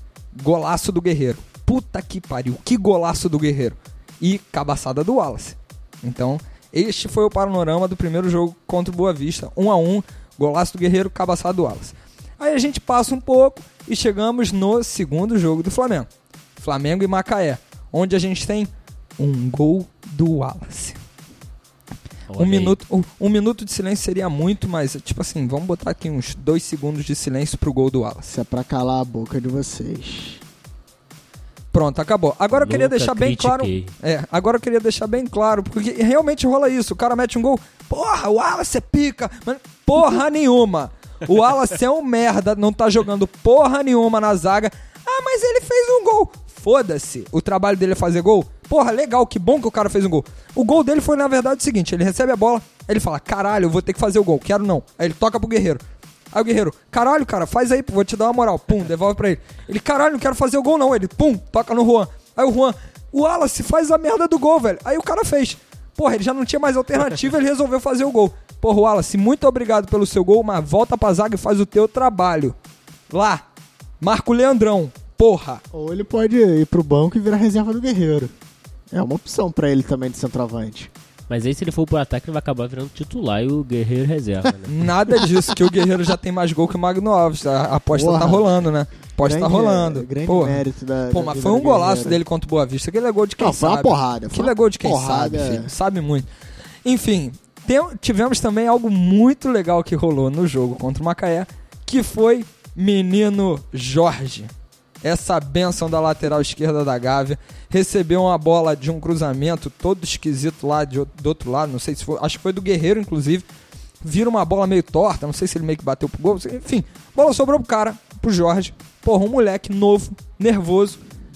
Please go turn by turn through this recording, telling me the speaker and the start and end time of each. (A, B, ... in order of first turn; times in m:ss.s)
0:00.3-0:21.0 A
0:22.3-0:22.8 B
0:22.4-0:28.3 A
0:28.3-0:30.4 C
0:31.7-1:12.5 A
0:32.5-0:33.9 B
1:13.1-1:13.4 A
1:14.0-1:15.6 A
1:15.7-1:18.3 C
1:18.9-1:20.9 C
1:21.3-1:24.7 B
1:24.7-1:36.3 A
1:27.9-1:28.5 C
1:29.2-1:32.2 C
1:33.4-1:35.7 C
1:36.8-1:44.5 A
1:45.0-1:53.4 A
1:54.0-2:01.0 A